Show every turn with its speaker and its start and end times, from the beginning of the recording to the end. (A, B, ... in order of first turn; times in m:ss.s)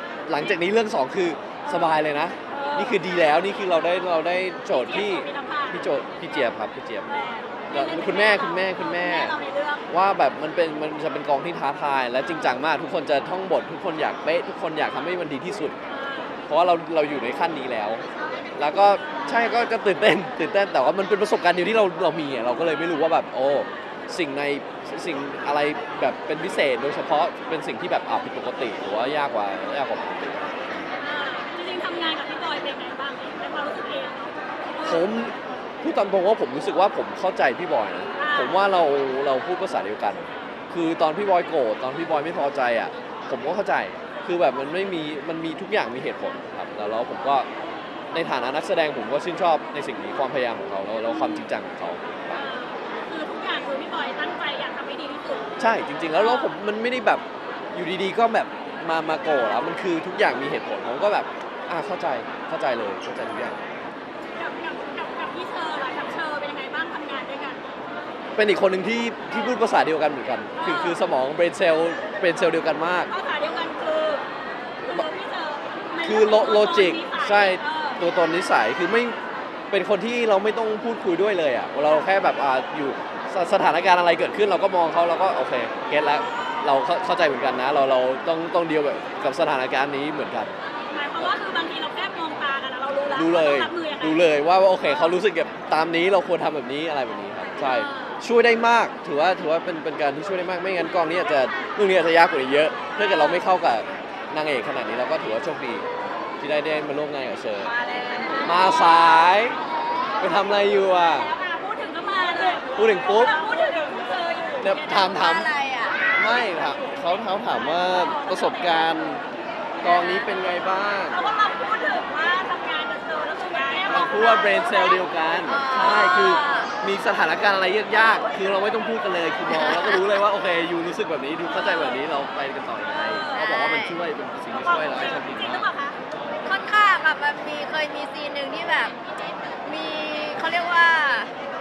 0:00.3-0:07.2 A
0:02.5-0:03.0 B
0:04.7-0:06.6 B
0:07.1-0:09.8 B
0:07.7-0:09.4 A
0:09.9-0:15.7 A
0:15.9-0:16.4 B
0:16.5-0:18.0 A
0:18.6-0:30.8 A
0:31.0-0:35.1 B
0:34.8-0:47.5 A
0:38.2-0:38.6 B
0:48.1-0:52.5 A
0:52.3-0:55.5 B
0:55.6-1:03.6 A
0:56.1-0:56.6 B
1:04.4-1:07.6 B
1:08.4-1:13.1 A
1:10.5-1:11.0 B
1:13.1-1:14.2 B
1:14.8-1:18.0 B
1:16.0-1:19.2 A
1:19.7-1:30.5 A
1:30.9-1:34.2 B
1:33.1-1:45.8 A
1:34.8-1:35.2 B
1:37.6-1:38.2 B
1:42.9-1:43.4 B
1:46.4-1:47.7 A
1:47.8-1:48.5 C
1:47.9-1:49.2 B
1:48.4-1:49.6 A
1:50.2-1:51.3 A
1:51.0-1:55.1 B
1:52.7-1:53.4 A
1:54.6-1:55.5 A
1:55.0-1:56.0 C
1:56.1-1:59.2 A
1:58.0-1:58.9 B
1:59.8-2:00.3 B
1:59.8-2:01.2 A
2:01.1-2:05.1 B
2:03.8-2:15.7 A
2:05.4-2:06.7 C
2:09.5-2:10.1 C
2:11.5-2:12.0 B
2:12.8-2:13.4 B
2:13.3-2:14.0 C
2:14.5-2:16.0 B
2:16.4-2:19.0 C
2:19.6-2:21.3 C